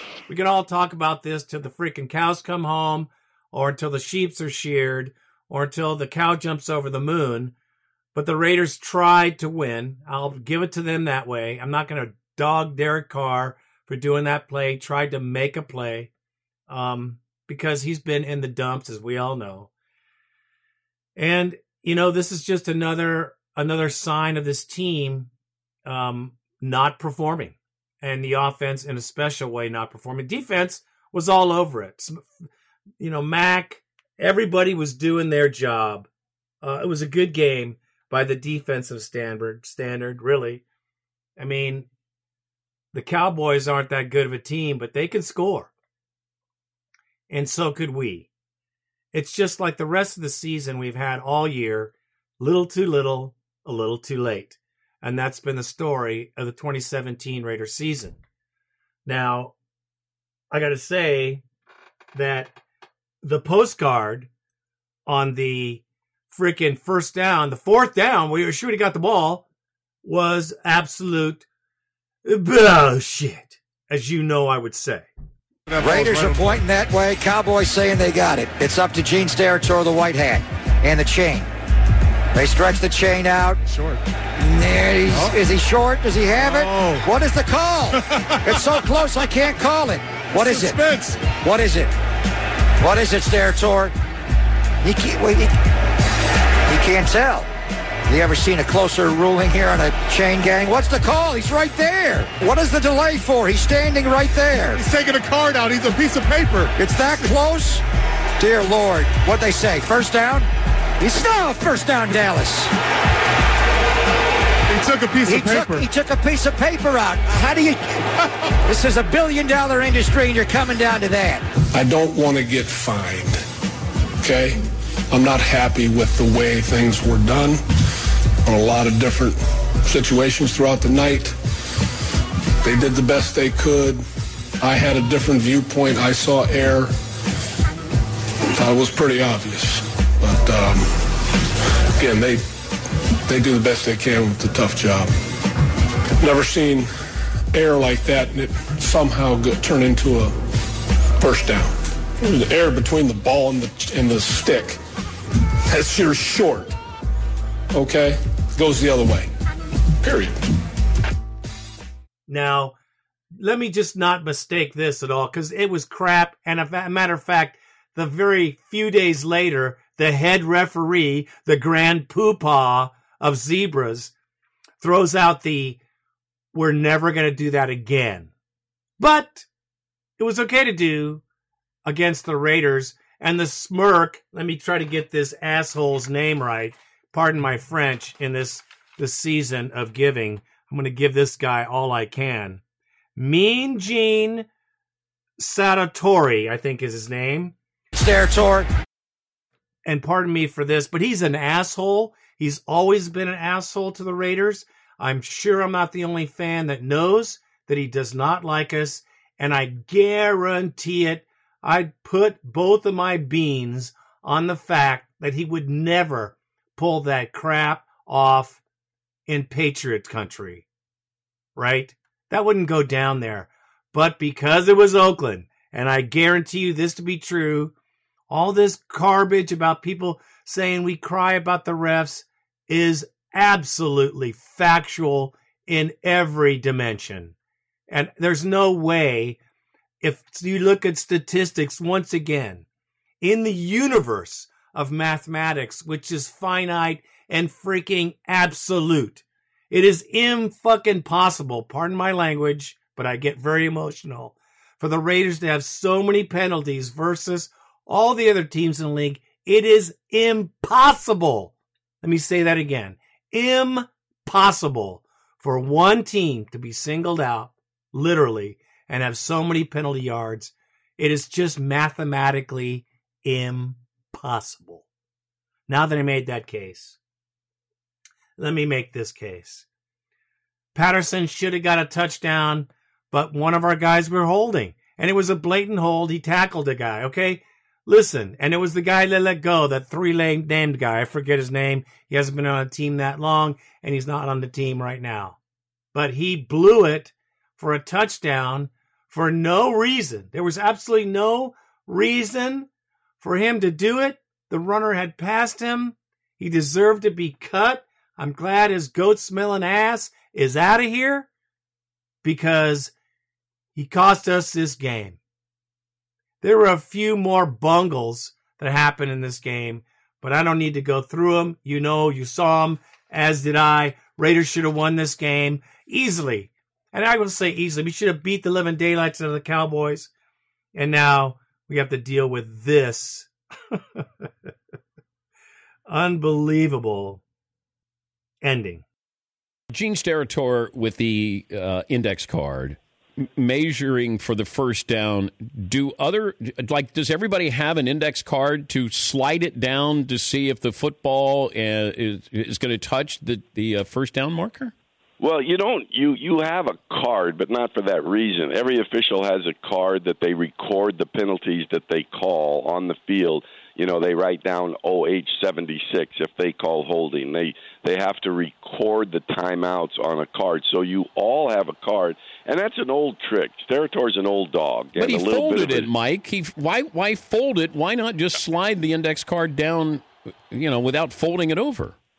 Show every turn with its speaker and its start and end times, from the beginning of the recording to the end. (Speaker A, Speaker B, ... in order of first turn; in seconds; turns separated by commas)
Speaker A: 0.3-7.5, Speaker A: 8.2-16.1, Speaker A: 16.7-19.7, Speaker A: 21.2-25.3, Speaker A: 25.9-32.3, Speaker A: 33.0-36.1, Speaker A: 36.6-40.6, Speaker A: 41.4-41.9, Speaker A: 42.9-45.7, Speaker A: 47.3-48.3, Speaker A: 49.1-58.2, Speaker A: 59.1-59.5, Speaker A: 60.5-61.4, Speaker A: 62.1-62.6, Speaker A: 63.2-64.3, Speaker A: 65.1-69.5, Speaker A: 70.0-71.5, Speaker A: 72.2-75.1, Speaker B: 75.7-76.7, Speaker C: 75.8-81.5, Speaker C: 82.3-83.6, Speaker B: 83.7-84.0, Speaker C: 84.4-90.9, Speaker B: 85.1-85.4, Speaker B: 86.3-87.1, Speaker B: 87.9-89.0, Speaker B: 90.3-91.3, Speaker C: 91.4-91.9, Speaker C: 92.8-93.9, Speaker C: 94.8-95.5, Speaker C: 96.7-97.5, Speaker C: 98.1-104.8, Speaker B: 104.7-107.4, Speaker C: 106.8-107.8, Speaker C: 108.4-110.5, Speaker C: 111.0-112.7, Speaker B: 114.7-115.9, Speaker C: 115.2-118.0, Speaker C: 118.7-121.5, Speaker D: 121.7-123.4, Speaker D: 124.2-124.6, Speaker D: 125.1-127.6, Speaker D: 128.5-131.3, Speaker D: 132.6-134.0, Speaker D: 134.6-136.9, Speaker D: 138.5-140.9, Speaker D: 142.0-142.4, Speaker D: 143.3-145.1, Speaker D: 146.2-146.9, Speaker D: 147.5-150.3, Speaker D: 151.2-154.8, Speaker D: 155.7-156.7, Speaker D: 157.7-159.3, Speaker D: 160.0-160.4, Speaker A: 162.3-162.8, Speaker A: 163.4-174.1, Speaker A: 174.8-175.8, Speaker A: 176.5-178.3, Speaker A: 179.0-179.5, Speaker A: 180.2-181.2, Speaker A: 181.8-192.6, Speaker A: 193.2-194.5, Speaker A: 195.4-197.5, Speaker C: 197.9-198.7, Speaker A: 199.9-218.6, Speaker A: 219.3-220.7, Speaker A: 221.6-227.7, Speaker A: 228.3-237.3, Speaker A: 237.9-239.4, Speaker A: 240.0-242.7, Speaker A: 243.2-274.9, Speaker A: 275.7-277.0, Speaker A: 278.4-279.7, Speaker A: 280.7-295.4, Speaker A: 295.9-302.7, Speaker A: 303.2-311.3, Speaker A: 312.2-312.9, Speaker A: 313.8-315.2, Speaker A: 316.4-330.1, Speaker A: 330.8-333.8, Speaker A: 335.9-337.2, Speaker A: 338.4-338.9, Speaker E: 339.7-354.7, Speaker F: 355.2-375.9, Speaker E: 375.0-382.0